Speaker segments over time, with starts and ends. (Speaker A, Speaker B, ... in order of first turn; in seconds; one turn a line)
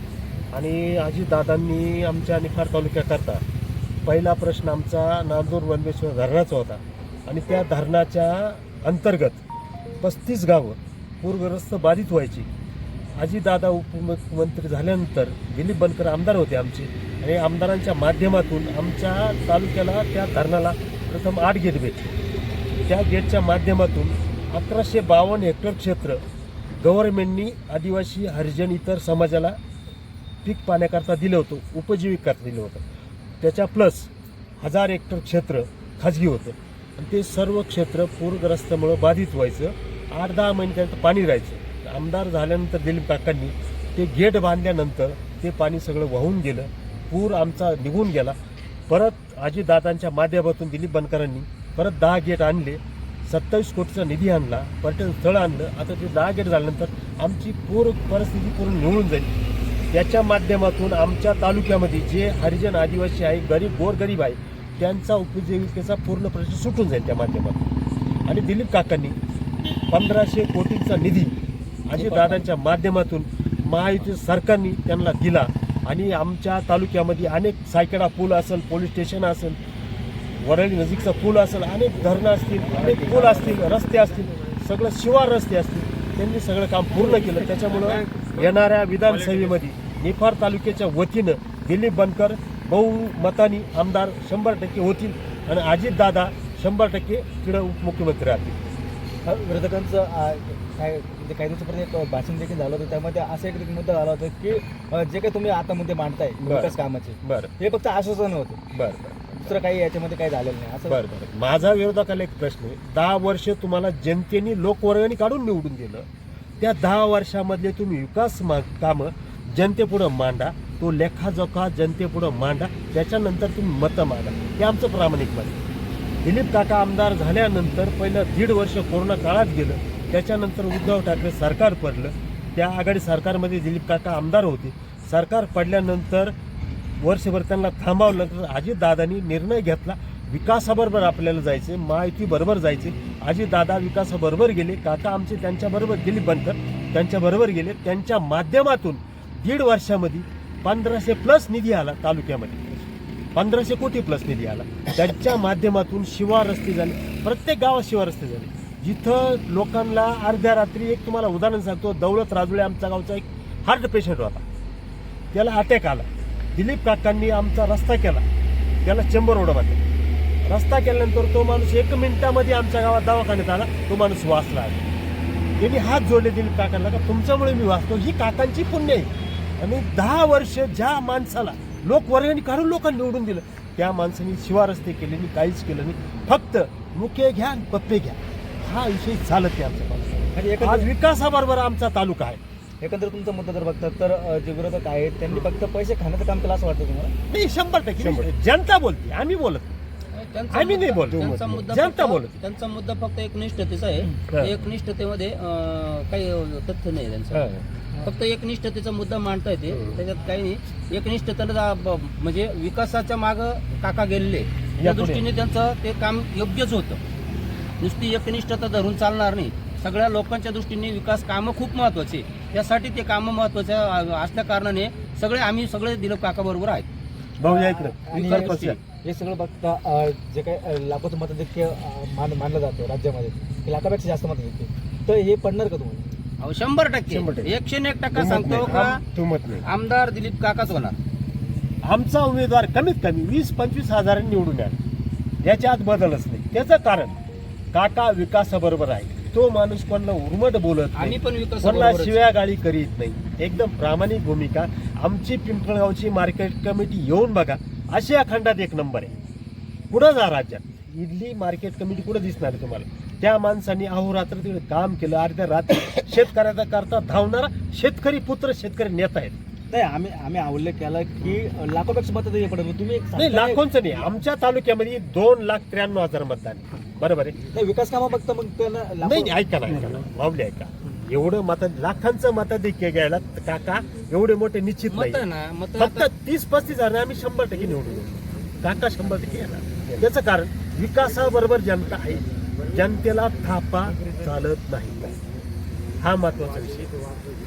Speaker A: 0.5-3.4
Speaker A: 4.0-9.4
Speaker A: 10.0-12.5
Speaker A: 13.2-22.2
Speaker A: 22.9-26.2
Speaker A: 26.8-29.6
Speaker A: 30.4-32.9
Speaker A: 33.4-34.1
Speaker A: 34.6-48.4
Speaker A: 48.9-59.3
Speaker A: 59.9-67.7
Speaker A: 68.3-69.2
Speaker A: 69.9-71.3
Speaker A: 71.9-79.6
Speaker B: 72.0-72.4
Speaker A: 80.4-98.6
Speaker C: 99.2-108.7
Speaker A: 106.4-107.5
Speaker A: 108.7-109.6
Speaker C: 109.3-111.0
Speaker A: 110.9-116.1
Speaker A: 116.6-125.6
Speaker A: 126.2-136.3
Speaker A: 137.0-152.6
Speaker A: 153.3-164.4
Speaker A: 165.3-168.2
Speaker A: 168.8-169.8
Speaker A: 170.5-174.9
Speaker A: 175.6-192.4
Speaker C: 190.3-190.9
Speaker C: 192.8-197.1
Speaker A: 197.3-199.8
Speaker B: 200.1-207.4
Speaker A: 200.5-202.4
Speaker A: 204.3-204.6
Speaker A: 207.3-207.7
Speaker B: 208.0-217.0
Speaker A: 209.7-210.0
Speaker A: 214.8-215.2
Speaker B: 217.8-226.9
Speaker A: 227.4-228.8
Speaker C: 227.4-236.1
Speaker B: 228.1-228.8
Speaker B: 236.4-239.0
Speaker A: 237.1-237.5
Speaker A: 238.1-239.7
Speaker B: 239.6-241.0
Speaker A: 241.8-244.8
Speaker A: 245.4-247.2
Speaker A: 247.7-259.1
Speaker B: 250.9-252.2
Speaker A: 259.9-269.4
Speaker C: 269.7-273.6
Speaker A: 273.2-277.4
Speaker C: 277.5-279.4
Speaker A: 279.0-285.2
Speaker B: 284.9-286.1
Speaker A: 285.8-295.2
Speaker A: 296.0-296.9